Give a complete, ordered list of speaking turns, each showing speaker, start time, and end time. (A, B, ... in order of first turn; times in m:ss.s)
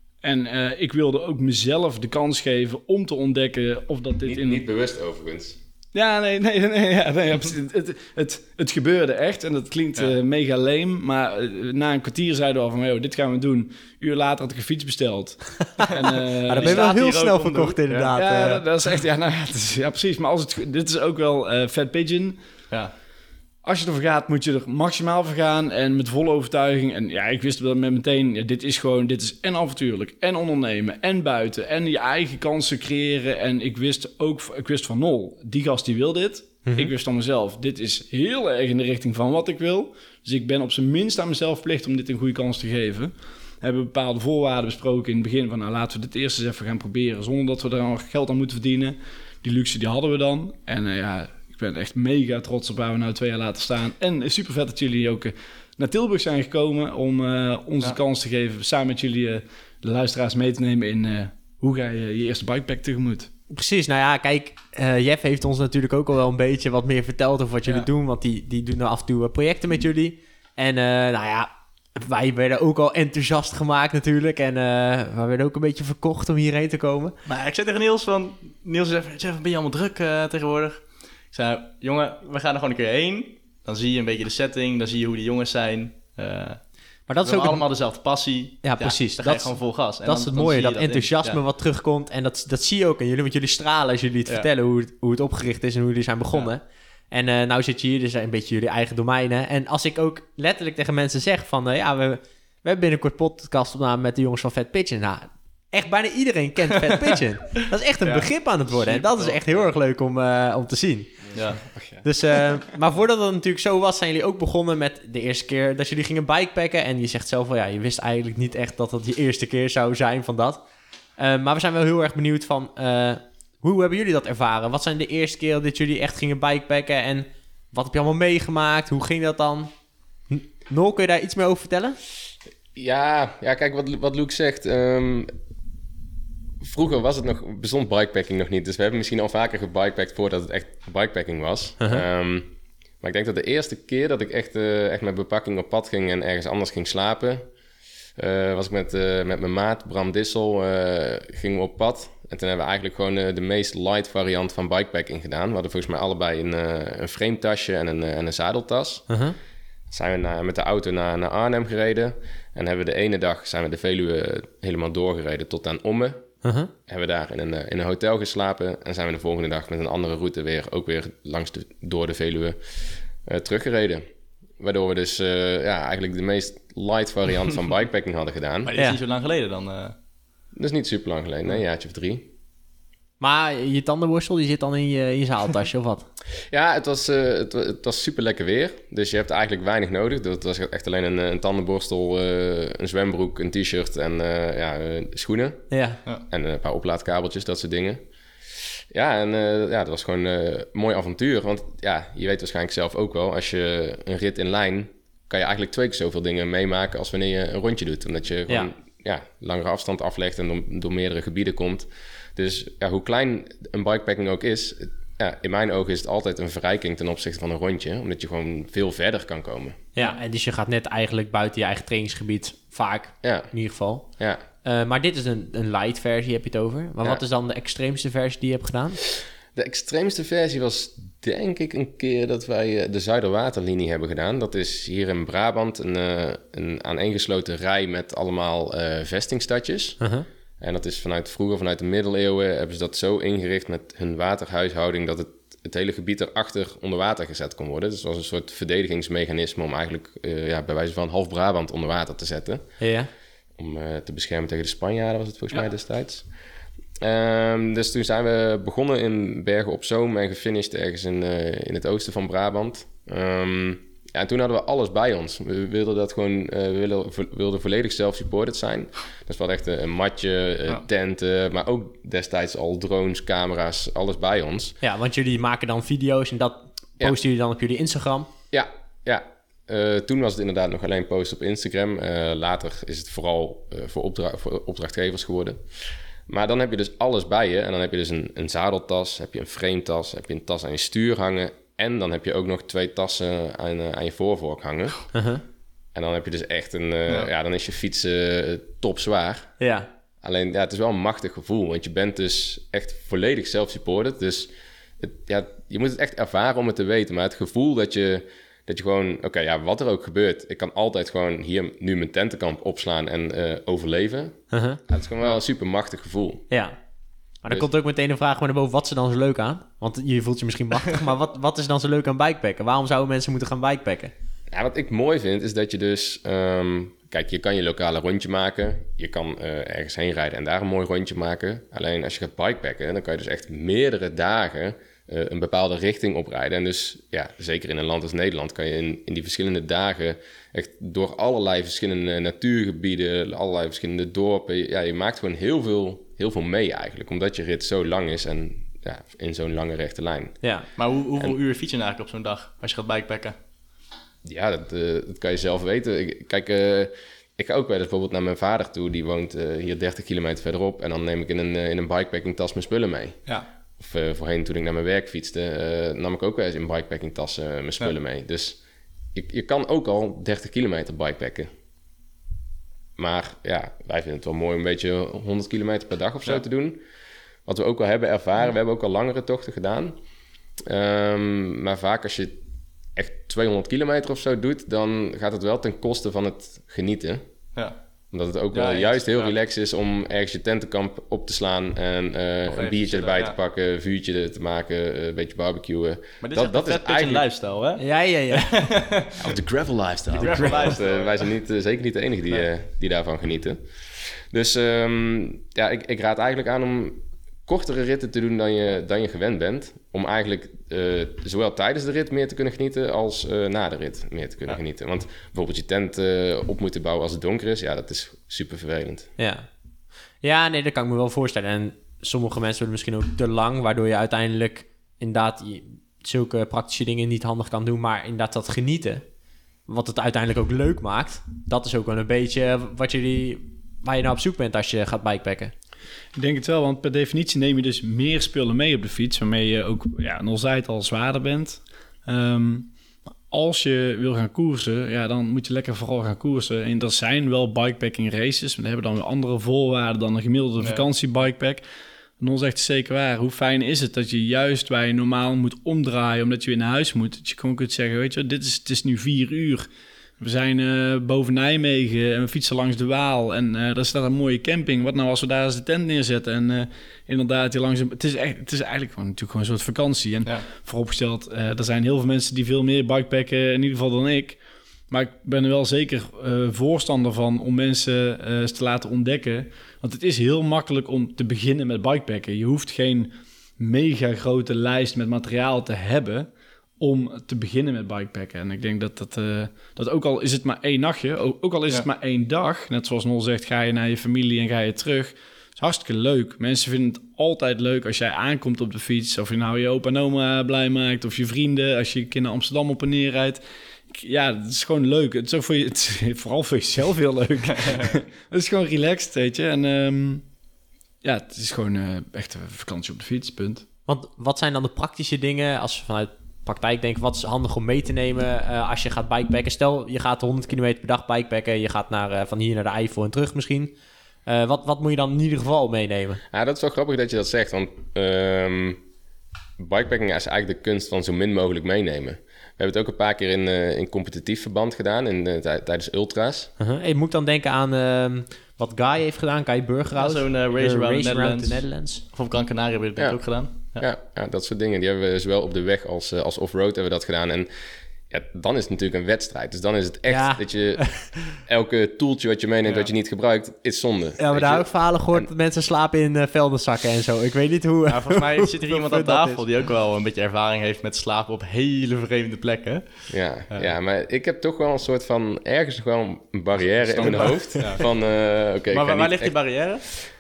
0:00.2-0:04.6 A
0:04.3-0:05.6 B
0:05.9-0:22.4 A
0:15.9-0:18.1 C
0:16.5-0:18.6 D
0:23.6-1:03.3 A
0:36.6-0:36.9 D
1:03.5-1:17.1 D
1:17.2-1:26.6 C
1:27.1-1:27.6 D
1:27.2-1:31.4 C
1:28.6-1:51.2 D
1:48.0-1:49.7 C
1:51.4-1:51.7 C
1:51.7-1:52.0 A
1:52.0-2:00.6 D
2:01.2-2:09.7 D
2:10.3-2:12.0 D
2:12.8-2:15.3 B
2:16.6-2:27.5 B
2:28.2-2:39.1 B
2:39.1-2:39.4 D
2:39.9-2:46.2 B
2:46.4-2:46.7 D
2:46.9-2:52.6 B
2:53.2-2:54.1 B
2:54.6-2:58.7 B
2:58.6-3:00.0 C
3:00.6-3:02.3 B
3:03.2-3:06.0 D
3:06.5-3:15.7 B
3:15.7-3:16.0 D
3:16.3-3:18.0 B
3:18.9-3:39.8 B
3:40.0-3:44.1 D
3:43.2-3:43.5 B
3:44.2-3:44.4 B
3:44.6-3:49.0 D
3:49.6-4:00.0 B
4:00.0-4:00.3 D
4:00.6-4:12.7 B
4:12.8-4:13.1 D
4:13.6-4:16.2 B
4:17.0-4:34.8 B
4:34.8-4:38.3 D
4:38.5-4:45.6 B
4:46.3-4:55.0 B
4:55.1-4:55.4 D
4:55.9-4:59.6 B
4:59.6-4:59.9 D
5:00.2-5:16.5 B
5:14.5-5:14.8 D
5:17.4-5:24.1 D
5:24.5-5:50.4 B
5:50.4-5:50.7 D
5:50.8-5:53.4 C
5:54.2-6:03.2 B
6:03.8-6:08.6 B
6:09.1-6:11.5 B
6:13.0-6:16.8 B
6:17.5-6:20.0 B
6:20.6-6:22.4 B
6:23.0-6:27.2 B
6:28.1-6:37.3 B
6:28.5-6:29.3 C
6:32.5-6:33.4 C
6:36.2-6:39.3 C
6:37.8-6:38.5 D
6:39.2-6:59.1 B
6:40.1-6:41.2 C
6:59.2-6:59.5 D
7:00.2-7:09.0 D
7:09.7-7:15.5 D
7:16.2-7:22.7 A
7:23.3-7:31.6 A
7:30.6-7:30.8 C
7:32.2-7:39.7 A
7:40.2-8:30.3 A
8:31.0-8:33.6 A
8:33.9-8:43.7 D
8:44.3-8:46.2 D
8:46.3-8:48.8 B
8:49.6-8:56.5 B
8:56.6-9:02.0 D
9:00.0-9:03.9 C
9:03.0-9:07.5 B
9:08.1-9:15.3 B
9:10.1-9:11.2 D
9:12.6-9:12.9 C
9:14.2-9:19.4 D
9:17.9-9:23.7 C
9:23.1-9:29.4 B
9:26.9-9:27.9 C
9:28.7-9:29.9 C